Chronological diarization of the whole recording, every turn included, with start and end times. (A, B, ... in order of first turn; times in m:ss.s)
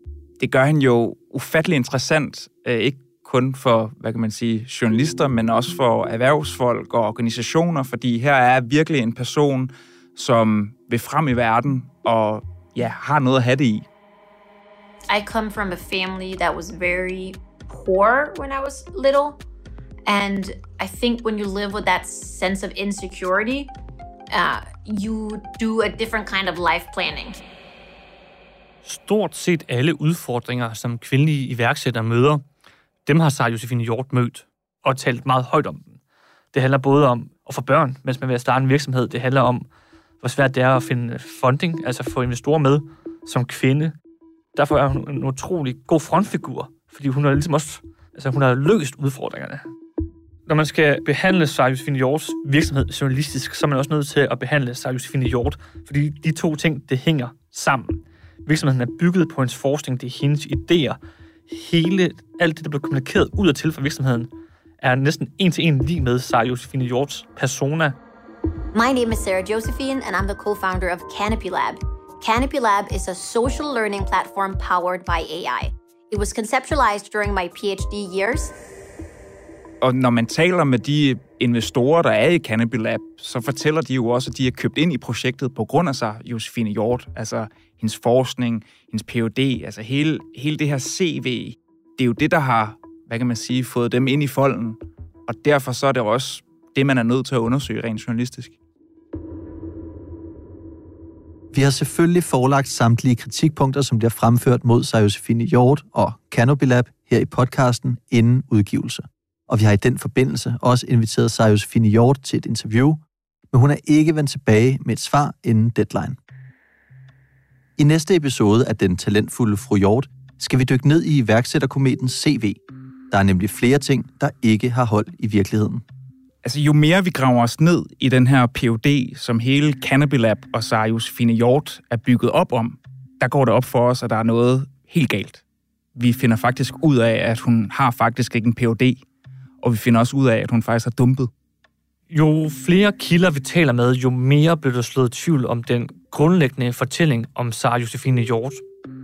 0:00.4-0:13.9 A
0:15.1-0:19.4 B
0:20.1-0:23.7 B
0:24.3-0:27.4 B
0:28.8-0:32.4 C
0:33.0-0:36.0 C
0:36.5-0:39.7 C
0:40.2-0:44.0 C
0:44.6-0:49.6 C
0:50.5-1:04.3 C
1:04.8-1:08.0 C
1:08.7-1:18.5 B
1:19.8-1:38.6 A
1:41.5-1:53.0 D
1:53.5-1:56.2 D
1:57.8-2:05.8 D
2:06.4-2:15.4 A
2:16.0-2:19.0 A
2:19.6-2:21.3 A
2:22.1-2:28.6 C